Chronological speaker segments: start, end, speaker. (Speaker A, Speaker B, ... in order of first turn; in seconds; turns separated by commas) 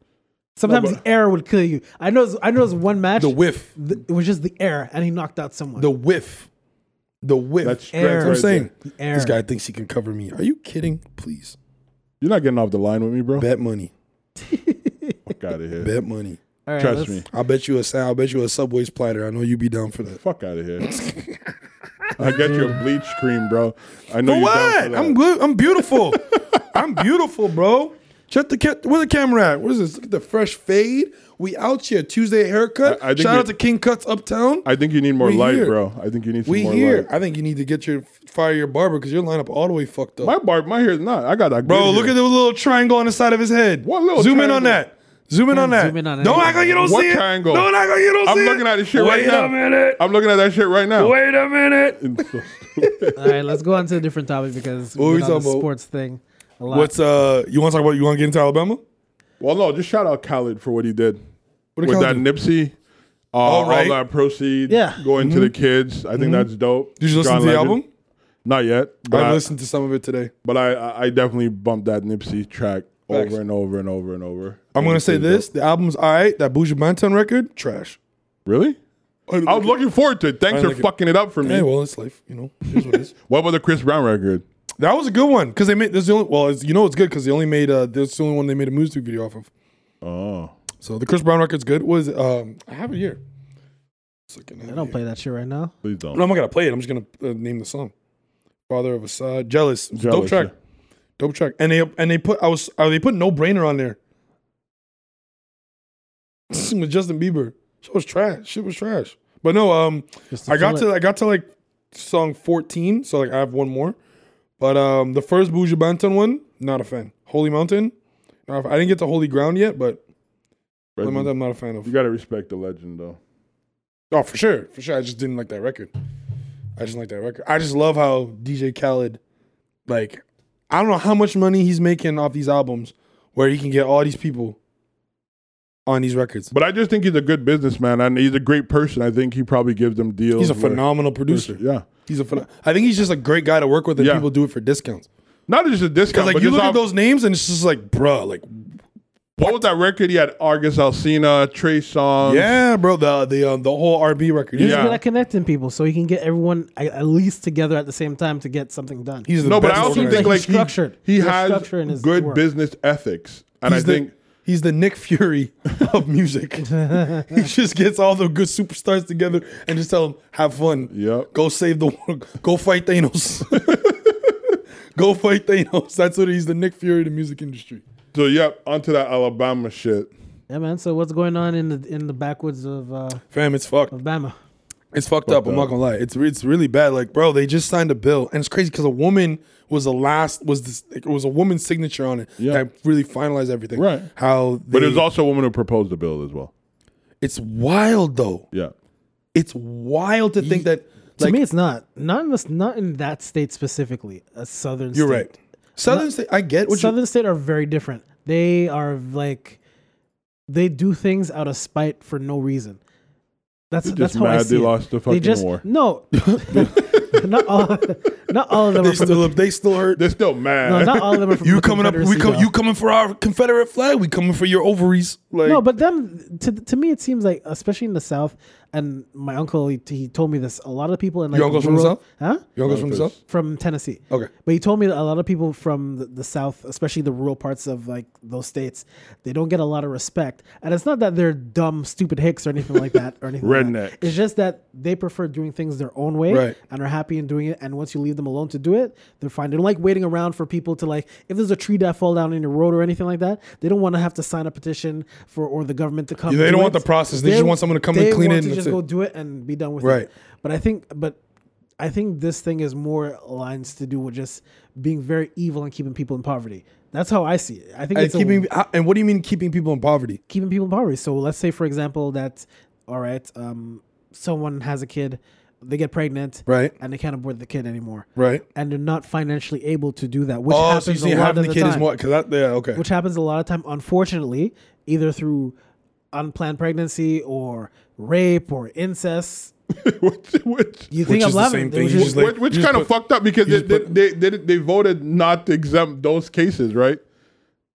Speaker A: 0.6-5.9, Speaker B: 0.7-0.9, Speaker C: 3.2-3.7, Speaker C: 5.8-6.5, Speaker C: 7.2-11.6, Speaker B: 7.6-8.7, Speaker A: 7.9-9.4, Speaker B: 12.2-13.4, Speaker C: 13.4-13.9, Speaker A: 14.4-15.2, Speaker B: 15.3-15.9, Speaker C: 15.8-16.4, Speaker A: 16.6-17.2, Speaker B: 16.8-17.3, Speaker C: 17.3-20.2, Speaker B: 20.2-21.0, Speaker C: 20.8-21.4, Speaker B: 22.2-25.1, Speaker A: 22.2-22.8, Speaker C: 24.2-35.8, Speaker B: 26.1-26.8, Speaker B: 32.8-33.5, Speaker B: 34.6-37.1, Speaker C: 36.5-40.3, Speaker B: 40.2-42.1, Speaker C: 41.6-50.0, Speaker B: 43.8-44.8, Speaker A: 45.5-47.0, Speaker B: 46.8-47.7, Speaker B: 48.2-51.1, Speaker C: 51.0-53.1, Speaker B: 52.0-53.2, Speaker A: 53.1-56.9, Speaker C: 55.0-55.7, Speaker C: 56.7-58.8, Speaker B: 59.4-61.2, Speaker C: 61.8-62.2, Speaker B: 61.8-62.7, Speaker B: 63.3-67.8, Speaker C: 63.4-64.0, Speaker A: 64.7-65.0, Speaker C: 65.2-65.5, Speaker C: 66.2-66.5, Speaker C: 67.0-67.8, Speaker B: 68.4-69.4, Speaker C: 69.1-70.3, Speaker B: 70.4-75.5, Speaker C: 73.1-73.4, Speaker C: 74.7-78.0, Speaker B: 78.5-78.8, Speaker C: 79.3-79.7, Speaker B: 79.4-81.7, Speaker C: 80.5-80.9, Speaker C: 81.4-83.1, Speaker B: 82.8-84.4, Speaker C: 84.8-89.5, Speaker B: 90.0-90.5, Speaker C: 90.8-93.2, Speaker C: 94.3-95.0, Speaker A: 94.7-95.7, Speaker B: 95.8-96.2, Speaker C: 96.1-97.9, Speaker C: 98.7-100.5, Speaker B: 99.9-100.5, Speaker C: 101.2-104.0, Speaker C: 106.5-114.0, Speaker A: 110.3-110.9, Speaker C: 114.6-117.9, Speaker C: 118.5-120.0, Speaker B: 121.0-121.3, Speaker C: 121.0-121.9, Speaker B: 121.8-123.2, Speaker C: 124.1-125.9, Speaker C: 126.8-129.2, Speaker C: 129.9-134.6, Speaker C: 135.9-136.5, Speaker B: 136.5-141.9, Speaker C: 140.4-145.1, Speaker B: 144.0-144.3, Speaker B: 145.5-146.8, Speaker C: 146.1-148.8, Speaker B: 149.4-152.6, Speaker C: 152.2-154.9, Speaker A: 154.6-162.4, Speaker B: 154.6-155.0, Speaker C: 159.2-160.4, Speaker B: 159.4-164.1, Speaker C: 163.7-173.9, Speaker A: 166.7-167.5, Speaker B: 170.9-171.3, Speaker B: 173.5-174.0, Speaker C: 174.9-177.8, Speaker B: 178.1-180.1, Speaker A: 180.5-183.2, Speaker C: 183.3-183.9, Speaker A: 183.9-184.3, Speaker C: 184.9-195.0, Speaker B: 185.2-185.7, Speaker B: 193.7-194.1, Speaker B: 194.7-196.5, Speaker C: 197.2-198.4, Speaker C: 199.3-201.4, Speaker A: 201.2-205.3, Speaker C: 204.9-206.9, Speaker A: 206.7-209.6, Speaker A: 210.5-212.8, Speaker A: 213.7-219.3, Speaker B: 213.8-215.6, Speaker B: 216.5-217.1, Speaker C: 218.8-220.0, Speaker B: 219.9-221.2, Speaker A: 220.6-222.5, Speaker C: 221.4-225.6, Speaker A: 225.4-232.4, Speaker C: 231.3-232.0, Speaker C: 232.6-233.1, Speaker B: 232.6-233.1, Speaker A: 233.2-261.2, Speaker B: 243.4-244.2, Speaker C: 246.3-246.6, Speaker C: 256.3-258.8, Speaker C: 259.8-260.1, Speaker A: 261.8-268.4, Speaker C: 267.9-270.2, Speaker A: 270.3-281.9, Speaker C: 276.5-276.7, Speaker C: 278.1-278.4, Speaker C: 280.5-282.8, Speaker A: 282.8-285.6, Speaker A: 286.1-289.5, Speaker B: 289.7-290.9, Speaker A: 290.9-292.2, Speaker C: 291.0-292.9, Speaker B: 291.9-297.0, Speaker C: 293.4-293.9